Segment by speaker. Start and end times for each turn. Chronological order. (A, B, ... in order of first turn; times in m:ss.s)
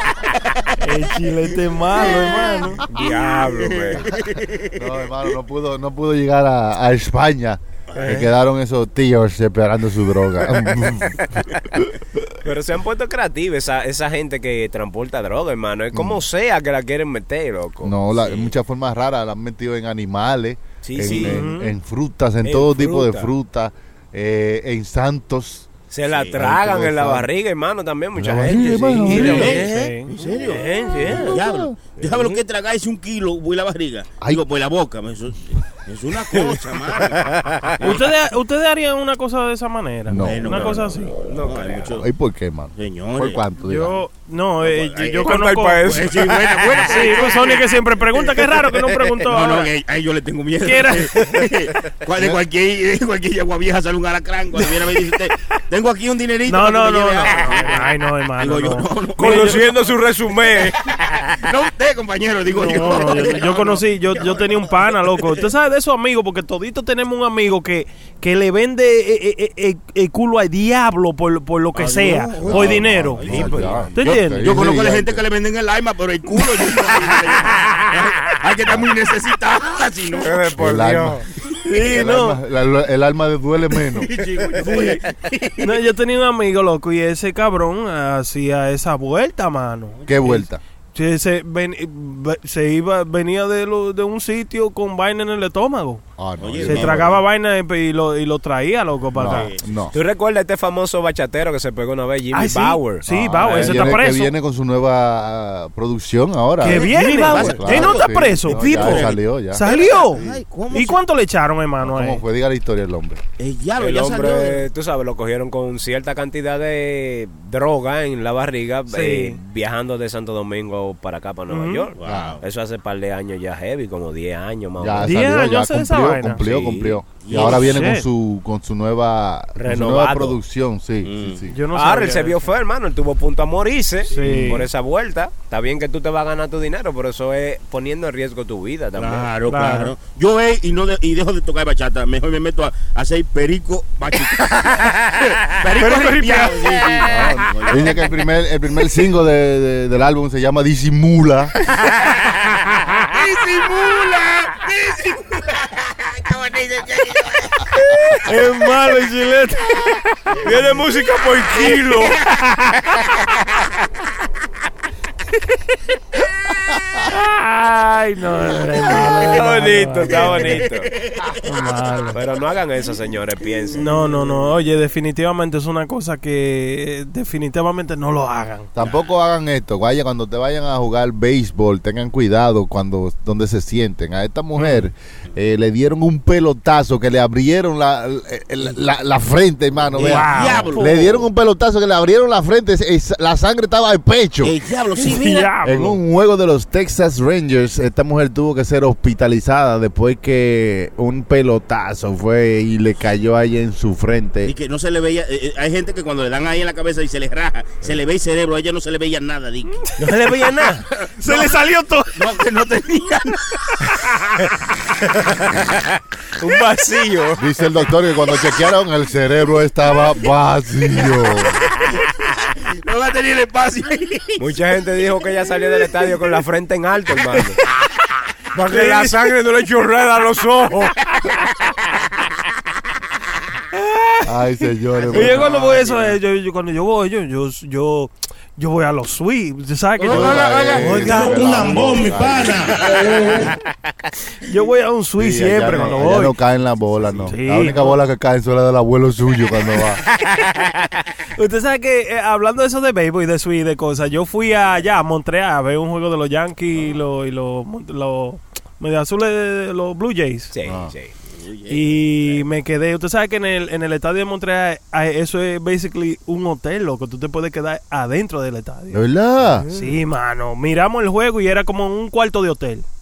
0:00.8-0:02.8 A
0:02.0-0:04.8 B
0:02.8-0:04.1 C
0:04.7-0:12.2 D
0:07.9-0:08.3 C
0:11.2-0:11.5 C
0:12.4-0:18.5 C
0:15.9-0:16.2 D
0:17.8-0:25.7 D
0:20.8-0:21.4 C
0:21.1-0:21.7 A
0:22.4-0:23.3 C
0:25.9-0:31.4 C
0:26.1-0:26.4 B
0:26.2-0:27.3 D
0:28.1-0:29.6 D
0:29.0-0:38.1 B
0:29.1-0:30.1 A
0:31.0-0:31.8 D
0:32.0-0:32.4 C
0:36.4-0:38.0 C
0:37.8-0:41.1 A
0:40.1-0:40.7 D
0:40.2-0:42.1 B
0:41.2-0:42.0 C
0:41.9-0:44.0 D
0:42.8-0:43.4 B
0:43.6-0:46.1 A
0:44.6-0:48.0 B
0:45.2-0:47.2 C
0:46.8-0:49.7 A
0:48.6-0:49.1 C
0:49.3-0:59.8 B
0:50.6-0:51.2 A
0:51.2-0:51.5 C
0:56.5-0:59.6 A
0:59.2-1:01.4 C
1:01.4-1:05.3 B
1:02.5-1:13.3 A
1:11.7-1:20.6 B
1:12.4-1:15.2 D
1:13.3-1:13.8 C
1:13.9-1:14.5 A
1:17.5-1:17.9 C
1:18.6-1:18.9 D
1:20.2-1:21.2 C
1:20.5-1:24.1 D
1:21.6-1:22.4 A
1:23.9-1:25.8 B
1:24.6-1:25.0 A
1:25.6-1:36.0 A
1:30.1-1:30.6 D
1:36.2-1:37.2 D
1:36.4-1:37.2 B
1:36.6-1:39.5 A
1:39.1-1:40.0 D
1:39.2-1:39.6 B
1:39.9-1:43.9 C
1:42.3-1:44.3 A
1:43.0-1:50.4 D
1:46.6-1:52.2 A
1:46.7-1:51.0 B
1:46.9-1:47.5 C
1:51.8-1:53.2 D
1:53.4-1:54.7 B
1:53.8-2:05.2 C
1:58.9-1:59.4 A
2:01.5-2:01.9 A
2:02.0-2:02.4 B
2:02.0-2:02.4 D
2:04.8-2:11.6 D
2:05.0-2:06.4 A
2:06.4-2:07.0 C
2:07.2-2:07.8 B
2:07.3-2:08.1 A
2:09.6-2:10.4 C
2:11.0-2:11.4 B
2:11.5-2:12.5 A
2:11.7-2:19.3 C
2:14.1-2:14.6 A
2:14.2-2:14.6 D
2:18.9-2:28.1 B
2:19.5-2:19.9 A
2:25.8-2:27.0 A
2:27.0-2:31.6 D
2:31.8-2:33.1 C
2:33.0-2:37.7 B
2:38.1-2:40.4 A
2:40.4-2:42.2 C
2:41.5-2:42.5 B
2:47.1-2:50.6 A
2:48.9-2:50.9 C
2:50.0-2:51.4 B
2:51.4-2:52.2 A
2:52.1-2:54.0 C
2:53.7-2:58.7 A
2:58.7-3:14.5 D
2:58.8-2:59.1 B
3:04.6-3:04.8 A
3:09.9-3:11.3 B
3:10.0-3:10.7 A
3:14.4-3:15.5 B
3:15.0-3:16.0 A
3:15.6-3:24.5 D
3:24.4-3:29.9 B
3:30.0-3:30.9 C
3:31.0-3:31.5 B
3:31.0-3:32.2 A
3:32.1-3:33.8 B
3:35.0-3:37.4 C
3:37.4-3:41.6 D
3:42.0-3:44.6 B
3:44.4-3:47.6 C
3:48.5-3:51.0 C
3:48.7-3:49.2 A
3:54.2-3:55.5 D
3:55.1-4:01.4 A
3:55.2-3:56.0 C
4:00.0-4:03.5 B
4:00.1-4:03.1 D
4:00.8-4:02.2 C
4:04.4-4:06.3 A
4:05.2-4:10.0 D
4:07.0-4:07.3 B
4:07.3-4:08.0 A
4:10.1-4:11.1 C
4:11.3-4:20.5 A
4:20.5-4:21.1 C
4:20.6-4:20.9 D
4:21.3-4:22.4 B
4:21.7-4:29.0 A
4:28.9-4:29.6 D
4:29.5-4:30.0 C
4:29.7-4:32.8 A